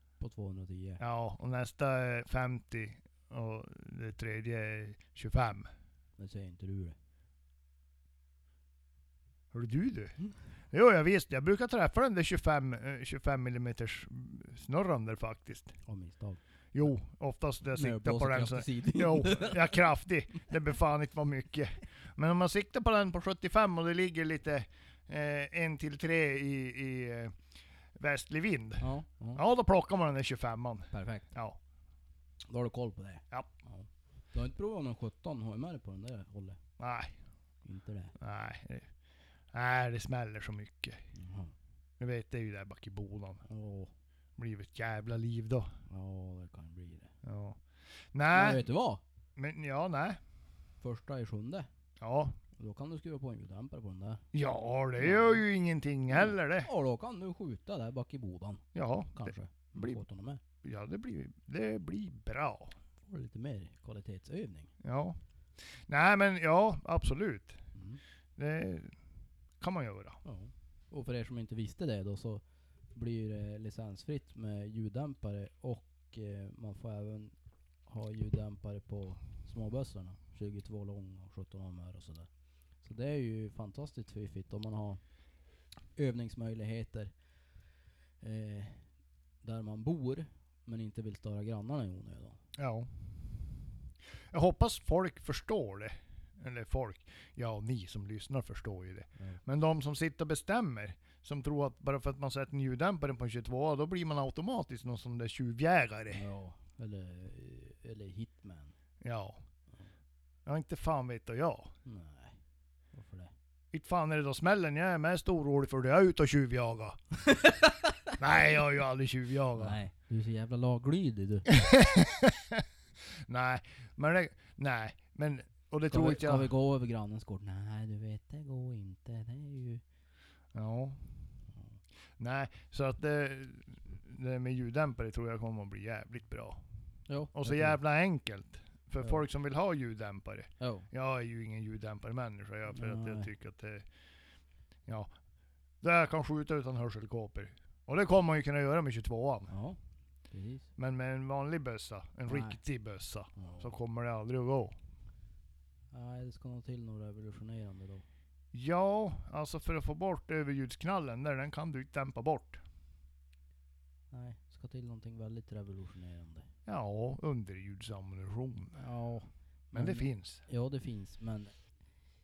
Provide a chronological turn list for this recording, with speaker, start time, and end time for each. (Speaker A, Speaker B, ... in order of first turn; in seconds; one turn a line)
Speaker A: 0.2-1.0
Speaker B: 1.0-5.7
Speaker A: 6.2-7.0
Speaker B: 9.5-10.2
Speaker B: 10.7-15.8
Speaker A: 15.9-16.4
Speaker B: 16.7-27.4
Speaker A: 17.7-19.9
Speaker B: 28.0-31.6
Speaker A: 28.8-29.4
Speaker A: 30.9-31.3
Speaker A: 32.5-36.6
Speaker B: 36.8-37.2
Speaker A: 37.6-38.2
Speaker B: 38.2-38.9
Speaker B: 39.5-41.1
Speaker A: 41.1-41.5
Speaker B: 42.0-43.5
Speaker A: 43.5-43.9
Speaker B: 44.4-45.7
Speaker A: 45.9-47.1
Speaker B: 47.2-47.6
Speaker B: 48.1-48.6
Speaker A: 48.3-49.0
Speaker B: 49.4-50.2
Speaker A: 50.8-51.7
Speaker B: 52.0-52.4
Speaker A: 52.6-54.2
Speaker B: 54.3-56.7
Speaker A: 55.0-55.4
Speaker A: 56.1-60.4
Speaker B: 58.8-60.0
Speaker B: 60.6-62.8
Speaker A: 63.1-64.7
Speaker B: 64.8-67.6
Speaker A: 67.8-68.0
Speaker B: 68.4-69.0
Speaker B: 69.6-70.2
Speaker A: 70.2-72.4
Speaker A: 72.9-77.3
Speaker A: 77.9-82.3
Speaker A: 82.8-85.0
Speaker A: 86.0-87.1
Speaker A: 88.2-88.9
Speaker A: 89.4-92.4
Speaker B: 92.6-93.5
Speaker B: 94.2-106.2
Speaker A: 106.1-108.7
Speaker B: 109.0-109.4
Speaker B: 110.5-111.7
Speaker A: 111.8-112.4
Speaker A: 112.9-113.3
Speaker B: 113.7-117.0
Speaker A: 117.3-118.1
Speaker B: 118.2-119.8
Speaker A: 119.6-121.5
Speaker B: 121.5-126.5
Speaker A: 125.9-129.8
Speaker B: 130.5-131.3
Speaker B: 132.2-136.6
Speaker A: 137.1-137.8
Speaker B: 137.3-143.9
Speaker A: 140.6-140.9
Speaker A: 142.7-143.3
Speaker B: 145.8-149.5
Speaker A: 149.5-149.8
Speaker A: 150.3-150.7
Speaker B: 150.8-154.8
Speaker A: 152.3-152.6
Speaker A: 153.4-153.8
Speaker A: 155.9-158.1
Speaker B: 158.5-162.6
Speaker A: 164.1-166.5
Speaker B: 166.7-168.8
Speaker A: 168.8-171.5
Speaker B: 169.7-170.4